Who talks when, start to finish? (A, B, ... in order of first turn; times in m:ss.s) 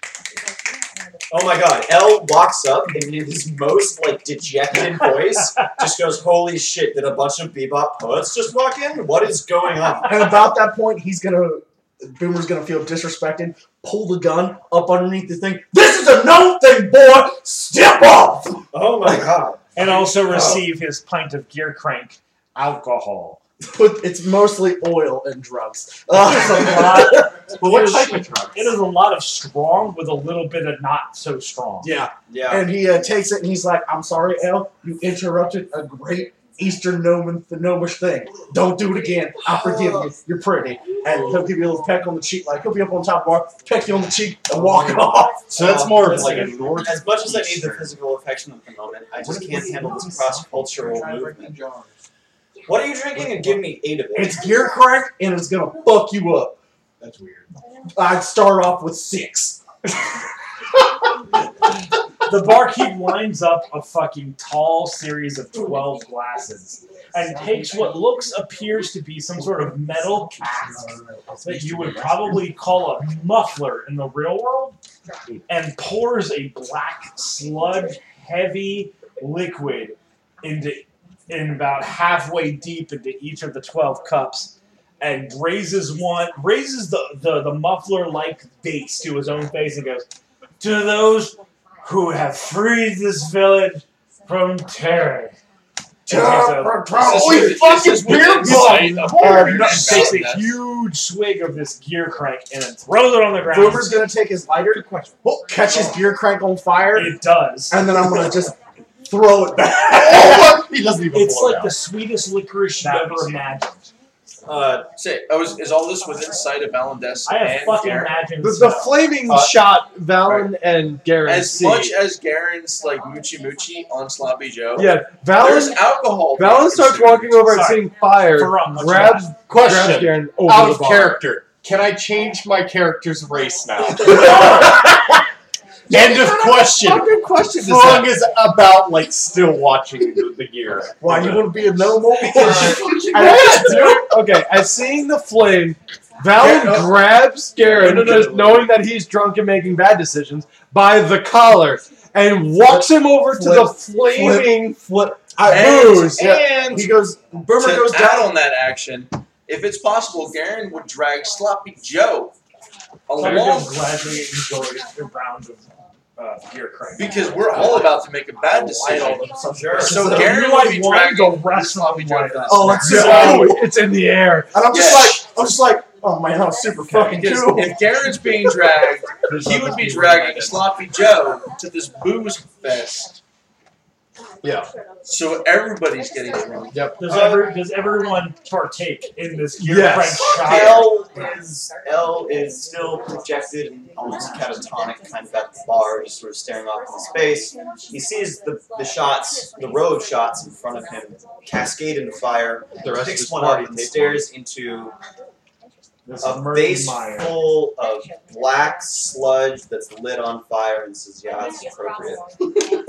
0:01.3-0:10.4 A
0:10.0-0:20.6 B
0:19.7-0:23.4 C
0:23.6-0:27.5 B
0:26.1-0:31.9 C
0:26.5-0:28.8 D
0:31.8-0:45.5 B
0:32.3-0:32.7 A
0:39.5-0:40.1 A
0:44.5-0:45.0 E
0:45.4-0:47.9 D
0:45.5-0:51.6 A
0:49.2-0:51.9 E
0:52.6-0:54.4 A
0:54.1-0:56.6 B
0:57.0-0:57.5 E
0:57.9-0:59.9 B
1:02.2-1:10.9 C
1:10.4-1:12.4 B
1:11.4-1:14.8 C
1:15.5-1:30.0 C
1:30.6-1:35.4 C
1:36.0-1:40.1 B
1:36.1-1:37.1 C
1:36.9-1:40.5 F
1:37.4-1:39.6 E
1:38.7-1:44.0 C
1:43.5-1:50.6 B
1:46.9-1:47.8 C
1:49.9-1:51.7 D
1:51.1-1:53.9 C
1:54.4-1:58.2 F
1:57.2-1:59.2 C
1:58.4-2:02.0 G
1:59.2-1:59.7 D
2:00.2-2:00.5 F
2:01.2-2:07.6 F
2:04.8-2:11.2 G
2:07.4-2:09.3 C
2:09.5-2:14.9 D
2:13.9-2:15.0 B
2:15.9-2:21.6 D
2:15.9-2:18.0 B
2:16.8-2:18.1 G
2:21.0-2:24.2 B
2:22.3-2:23.1 A
2:22.4-2:34.8 G
2:26.4-2:26.9 F
2:26.4-2:26.9 B
2:27.6-2:28.7 F
2:32.7-2:38.3 B
2:35.4-2:36.4 G
2:35.4-2:37.0 F
2:37.6-2:42.4 F
2:43.1-2:43.8 F
2:43.2-2:47.8 C
2:47.0-2:53.5 F
2:47.5-2:47.9 A
2:48.7-2:50.2 B
2:49.4-2:50.3 A
2:49.7-2:53.3 C
2:52.5-2:53.8 B
2:52.8-2:54.6 G
2:54.5-2:57.8 B
2:54.7-2:55.2 F
2:56.9-3:03.2 F
2:59.3-3:00.8 G
3:04.4-3:04.7 G
3:05.0-3:06.9 F
3:06.7-3:07.0 G
3:07.0-3:07.5 A
3:07.0-3:11.0 C
3:09.6-3:10.7 G
3:10.3-3:25.0 A
3:10.4-3:10.7 F
3:22.8-3:24.3 D
3:26.0-3:27.5 C
3:26.2-3:32.3 A